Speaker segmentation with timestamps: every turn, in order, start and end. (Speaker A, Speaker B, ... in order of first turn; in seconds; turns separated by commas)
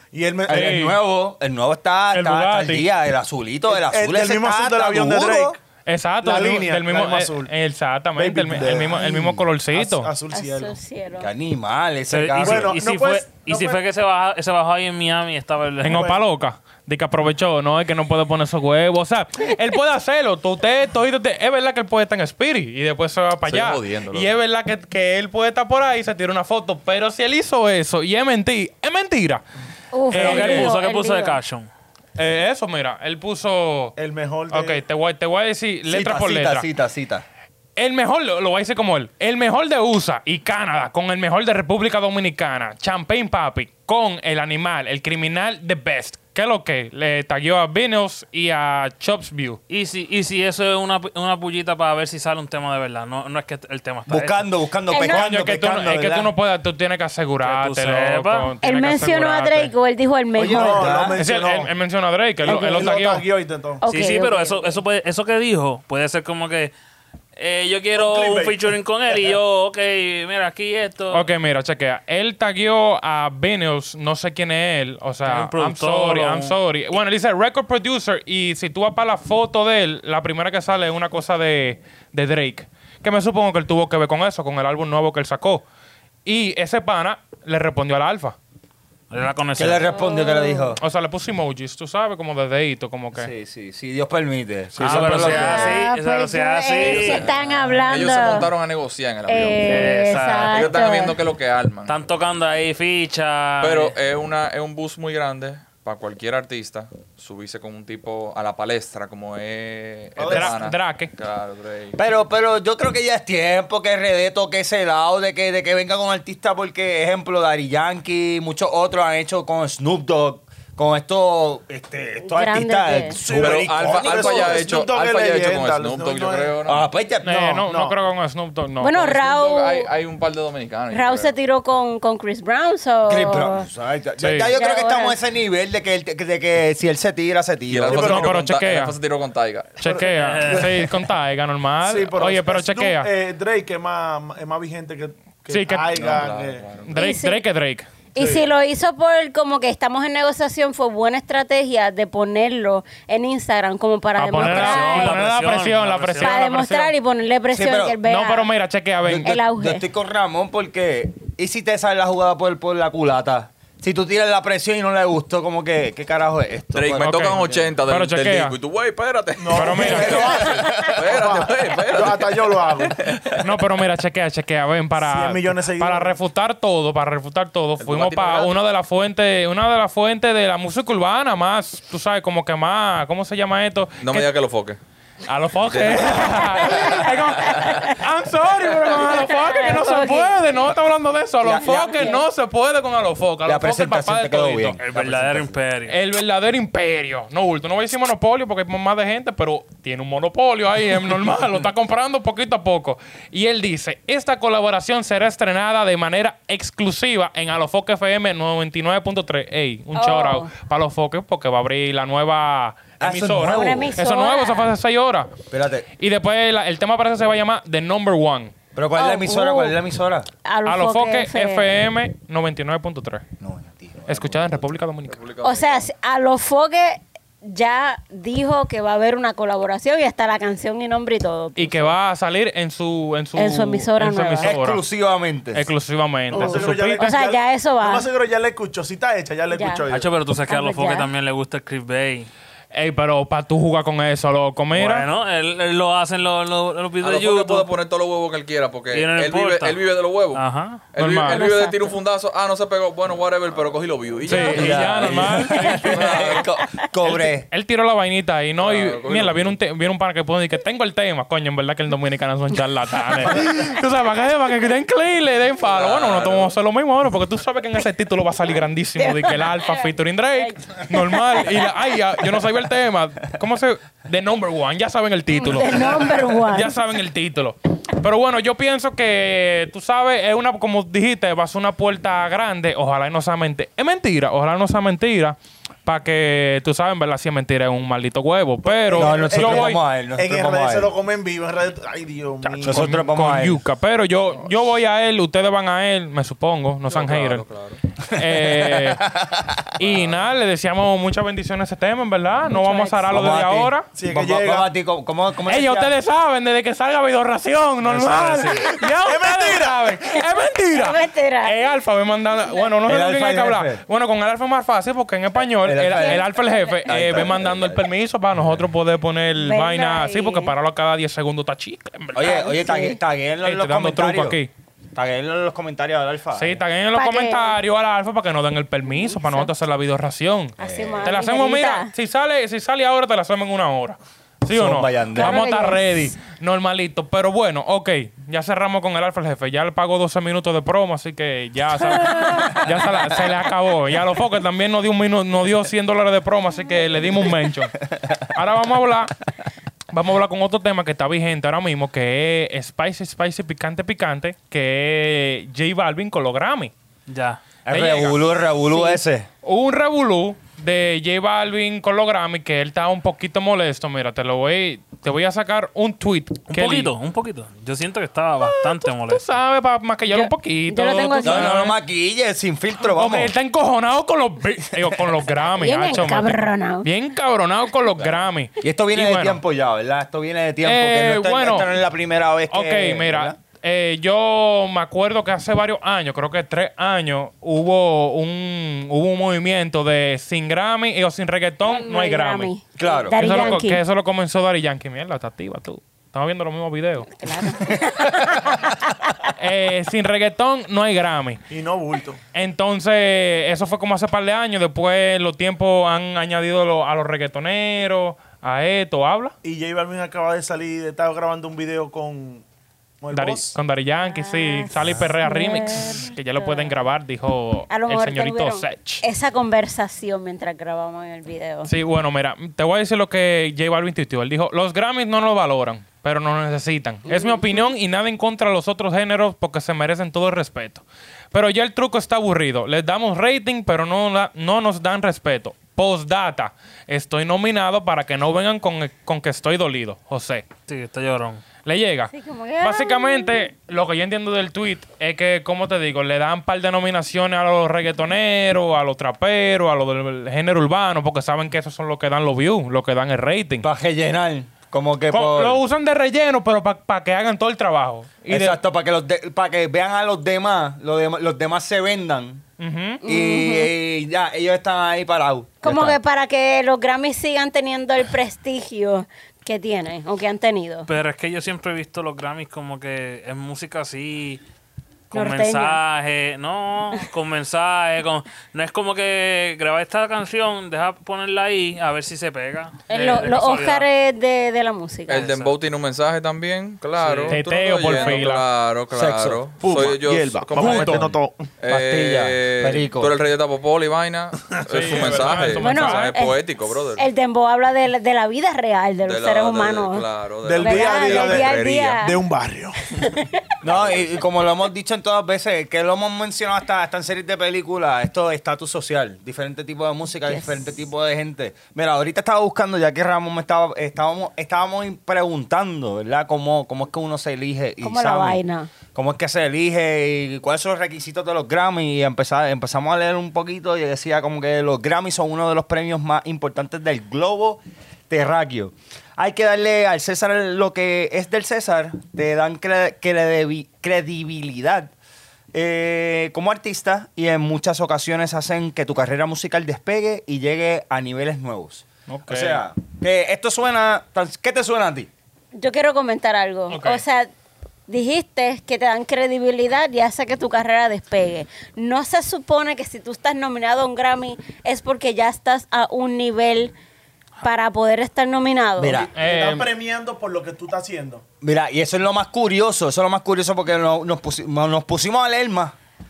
Speaker A: 0.1-0.8, Speaker B: 0.5-5.5, Speaker C: 0.5-1.0, Speaker C: 2.1-2.8, Speaker A: 3.7-5.6, Speaker C: 5.8-10.1, Speaker A: 6.2-7.5, Speaker A: 8.1-10.8, Speaker B: 9.0-9.3, Speaker D: 10.3-11.3, Speaker B: 11.2-12.8, Speaker E: 12.1-16.1, Speaker A: 12.4-13.8, Speaker C: 15.8-29.4, Speaker A: 15.9-16.2, Speaker F: 23.4-24.3, Speaker D: 29.9-31.4, Speaker C: 30.1-30.7, Speaker E: 30.1-31.7, Speaker C: 32.1-33.9, Speaker A: 34.0-34.8, Speaker C: 34.5-36.6, Speaker B: 35.9-37.2, Speaker C: 37.8-49.6, Speaker E: 49.7-54.4, Speaker B: 54.1-56.3, Speaker D: 54.9-55.4, Speaker C: 55.0-59.7, Speaker E: 57.4-58.5, Speaker D: 58.6-61.1, Speaker B: 60.3-61.2, Speaker A: 60.4-61.7, Speaker C: 61.2-63.2, Speaker A: 62.4-63.8, Speaker D: 62.5-62.9, Speaker D: 63.8-64.8, Speaker E: 63.9-66.7, Speaker E: 67.3-71.3, Speaker A: 68.0-68.6, Speaker C: 71.1-85.6, Speaker E: 75.2-76.5, Speaker C: 86.2-88.4, Speaker E: 89.1-89.9, Speaker B: 89.6-90.8, Speaker D: 89.9-90.8, Speaker C: 90.8-93.3, Speaker B: 93.1-95.8, Speaker E: 94.8-97.3, Speaker C: 94.8-95.3, Speaker D: 95.1-98.5, Speaker F: 97.8-101.9, Speaker D: 99.3-101.2, Speaker E: 99.6-100.6, Speaker E: 101.9-103.9, Speaker F: 103.6-112.0, Speaker A: 110.2-110.5, Speaker C: 110.2-111.1, Speaker B: 112.0-124.6, Speaker D: 122.2-123.2, Speaker A: 123.1-126.6, Speaker F: 123.3-126.8, Speaker B: 126.7-127.7, Speaker C: 127.2-129.2, Speaker A: 127.7-128.0, Speaker D: 128.8-129.9, Speaker F: 129.0-131.3, Speaker D: 130.9-133.7, Speaker B: 133.0-138.2, Speaker C: 134.2-134.5, Speaker D: 134.5-135.2, Speaker F: 137.7-139.9, Speaker A: 137.9-138.4, Speaker C: 137.9-139.0, Speaker C: 139.8-143.1, Speaker A: 139.8-141.1, Speaker E: 140.0-140.9, Speaker A: 141.8-146.7, Speaker C: 145.5-146.0, Speaker F: 145.9-147.0, Speaker C: 146.8-147.9, Speaker D: 146.9-147.4, Speaker D: 148.1-155.2, Speaker C: 154.2-156.9, Speaker E: 154.3-156.6, Speaker D: 156.2-158.5, Speaker B: 157.5-158.0, Speaker C: 158.0-159.4, Speaker B: 159.0-167.7, Speaker D: 159.1-159.8, Speaker F: 166.7-172.9, Speaker C: 167.0-168.5, Speaker A: 169.4-173.0, Speaker C: 169.5-170.5, Speaker C: 173.3-184.3, Speaker A: 175.0-176.2, Speaker F: 177.8-178.5, Speaker F: 184.0-184.8, Speaker C: 185.2-194.8, Speaker F: 185.7-187.7, Speaker D: 186.6-187.9, Speaker D: 188.9-190.4, Speaker B: 191.4-192.2, Speaker D: 191.6-192.2, Speaker B: 193.4-195.6, Speaker E: 194.8-196.0, Speaker C: 195.9-215.4, Speaker D: 209.9-210.5, Speaker B: 213.0-213.9, Speaker D: 213.4-214.7, Speaker B: 215.5-215.9, Speaker C: 216.0-218.5, Speaker B: 218.7-220.3, Speaker D: 218.9-219.8, Speaker D: 220.4-221.8, Speaker C: 220.6-223.2, Speaker B: 223.4-224.7, Speaker C: 224.1-225.2, Speaker F: 225.0-225.8, Speaker D: 225.4-231.9, Speaker C: 231.6-234.8, Speaker D: 233.3-234.6, Speaker B: 234.4-235.7, Speaker C: 235.5-237.1, Speaker A: 236.3-240.2, Speaker D: 236.3-238.1, Speaker D: 239.5-239.8, Speaker E: 239.9-242.3, Speaker D: 240.5-241.1, Speaker C: 242.7-245.1, Speaker E: 244.7-247.7, Speaker F: 247.0-256.4, Speaker E: 248.9-249.8, Speaker E: 250.3-250.8, Speaker C: 251.0-251.5, Speaker D: 251.3-251.8, Speaker C: 254.3-256.4, Speaker D: 254.3-254.7, Speaker B: 254.4-257.5, Speaker C: 257.2-289.8, Speaker F: 258.6-259.5, Speaker F: 265.7-266.6, Speaker D: 269.0-271.7, Speaker D: 275.3-276.8, Speaker A: 288.6-292.9, Speaker B: 288.9-290.9, Speaker C: 292.4-297.5, Speaker B: 292.6-293.6, Speaker F: 296.9-297.8, Speaker C: 298.1-299.1, Speaker B: 298.2-299.9, Speaker C: 299.8-303.9, Speaker D: 302.5-303.1, Speaker B: 303.1-305.9, Speaker A: 303.9-304.7, Speaker C: 305.4-322.4, Speaker E: 307.8-308.7, Speaker A: 308.8-310.0, Speaker D: 310.6-311.7, Speaker B: 312.9-313.8, Speaker B: 315.6-316.3, Speaker D: 315.9-316.9, Speaker B: 316.8-317.8, Speaker D: 319.3-320.5, Speaker B: 322.1-324.4, Speaker D: 322.2-323.0, Speaker C: 323.4-324.5, Speaker B: 324.9-326.6, Speaker C: 326.3-349.2, Speaker D: 326.9-327.6, Speaker D: 328.9-329.5, Speaker D: 330.6-331.9, Speaker B: 330.6-331.2, Speaker B: 334.5-335.4, Speaker D: 335.1-336.2, Speaker C: 349.9-356.7, Speaker E: 357.1-357.4, Speaker B: 357.6-359.3, Speaker C: 357.7-358.2, Speaker C: 359.4-366.9, Speaker E: 366.5-369.3, Speaker C: 368.4-371.7, Speaker D: 370.1-371.6, Speaker B: 371.2-373.3, Speaker C: 372.8-379.4, Speaker B: 374.7-375.1, Speaker D: 375.6-376.9, Speaker B: 378.0-383.4, Speaker C: 380.6-381.7, Speaker C: 382.5-392.5, Speaker D: 391.6-393.8, Speaker B: 392.8-393.6, Speaker C: 393.1-397.1, Speaker D: 397.1-398.4, Speaker C: 399.4-401.4, Speaker A: 401.5-402.2, Speaker C: 402.3-409.3, Speaker A: 409.4-412.4, Speaker A: 413.0-413.6, Speaker C: 413.1-419.0, Speaker D: 414.0-416.8, Speaker D: 417.7-421.7, Speaker C: 421.6-440.4, Speaker D: 427.1-427.6, Speaker E: 440.7-441.4, Speaker C: 441.6-453.6, Speaker D: 442.1-443.4, Speaker B: 453.6-455.6, Speaker C: 455.1-458.6, Speaker B: 458.3-462.4, Speaker C: 462.6-463.0, Speaker D: 463.0-463.7, Speaker B: 463.0-466.0, Speaker D: 465.6-470.9, Speaker E: 470.9-474.4, Speaker E: 475.1-483.9, Speaker D: 475.1-475.8, Speaker D: 482.9-485.3, Speaker F: 485.1-497.0, Speaker E: 485.1-485.5, Speaker E: 487.0-487.4, Speaker C: 487.3-488.4, Speaker B: 488.9-489.9, Speaker A: 489.6-491.4, Speaker B: 490.6-491.0, Speaker B: 491.7-493.1, Speaker C: 494.7-496.1, Speaker D: 495.5-496.4, Speaker D: 496.9-500.0, Speaker F: 499.0-502.0, Speaker A: 500.4-502.8, Speaker D: 500.6-502.2, Speaker D: 503.1-503.4, Speaker B: 503.6-518.4, Speaker F: 503.6-503.9, Speaker D: 510.2-510.6, Speaker D: 517.8-518.7, Speaker B: 518.9-534.9, Speaker B: 535.5-545.1, Speaker C: 542.1-542.6, Speaker D: 545.5-547.3, Speaker C: 546.7-547.0, Speaker D: 547.9-556.7, Speaker D: 557.4-559.1, Speaker B: 558.8-559.1, Speaker C: 559.1-559.7, Speaker A: 559.1-561.2, Speaker B: 561.4-565.8